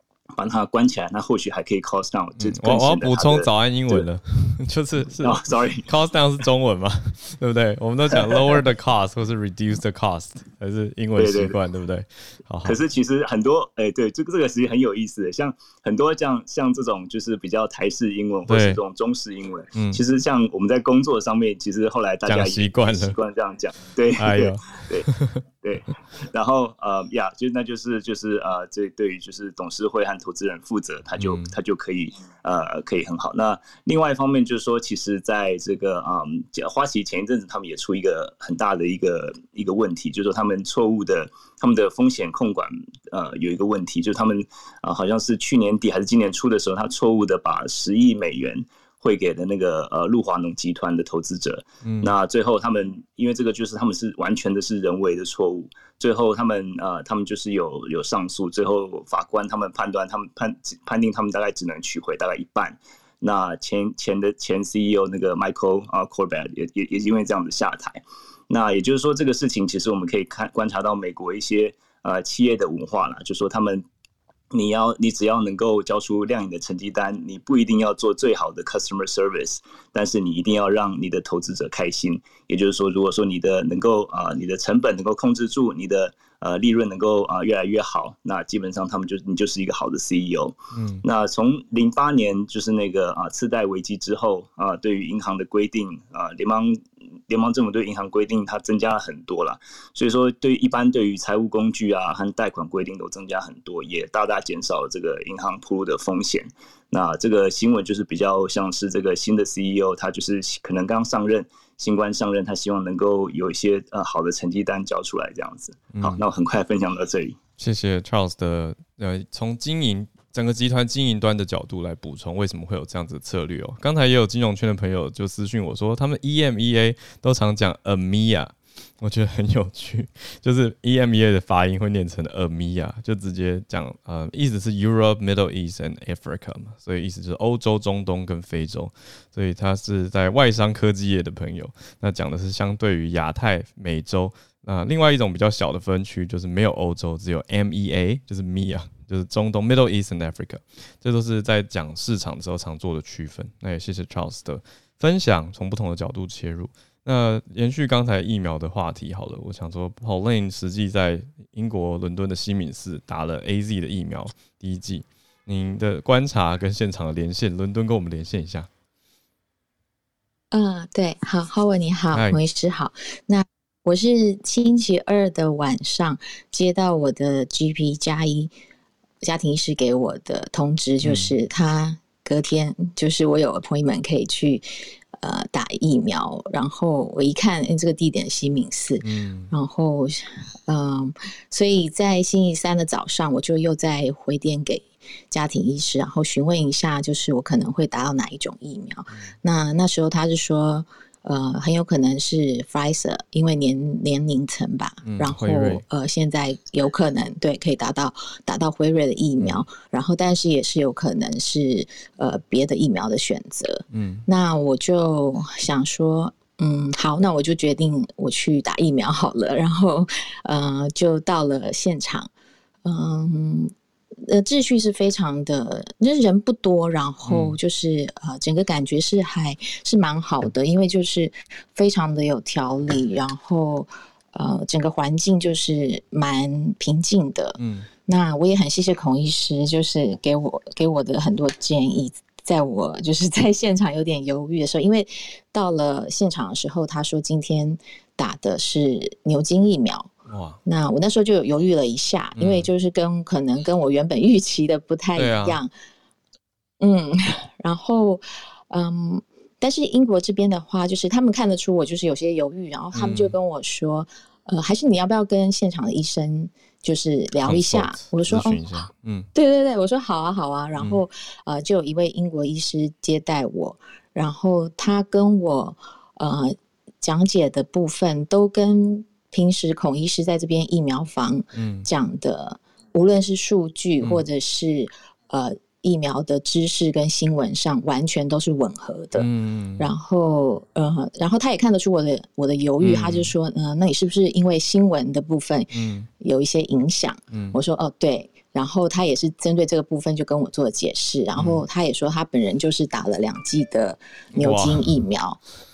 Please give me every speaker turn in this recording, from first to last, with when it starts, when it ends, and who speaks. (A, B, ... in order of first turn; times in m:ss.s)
0:00.4-0:04.0 A
0:02.4-0:12.8 B
0:05.2-0:05.9 A
0:11.2-0:11.6 A
0:12.6-1:13.9 A
0:18.5-0:18.8 B
0:19.8-0:20.0 B
0:22.3-0:23.2 B
0:24.2-0:25.4 B
0:31.2-0:31.5 B
0:51.8-0:52.1 B
1:14.5-1:57.4 A
1:30.7-1:31.0 B
1:55.9-1:56.2 B
1:57.6-2:48.7 B
2:50.5-2:58.5 C
2:52.1-2:52.4 B
2:59.2-3:42.3 C
3:01.0-3:01.3 B
3:09.0-3:09.5 B
3:25.0-3:25.8 B
3:29.4-3:29.7 B
3:33.9-3:34.3 B
3:42.8-3:43.7 C
3:44.2-4:10.1 C
3:47.3-3:47.6 B
3:57.6-3:57.9 B
4:10.3-4:10.6 B
4:10.6-4:15.7 C
4:12.4-4:12.7 B
4:15.2-4:15.6 B
4:16.8-4:49.3 C
4:22.9-4:23.3 B
4:27.4-4:29.3 B
4:30.8-4:31.0 B
4:41.6-4:41.9 B
4:44.0-4:44.3 B
4:49.2-4:49.9 B
4:49.8-5:05.4 C
4:52.8-4:53.3 B
4:55.7-4:56.1 B
4:57.3-4:57.6 B
5:01.4-5:01.6 B
5:04.3-5:05.0 B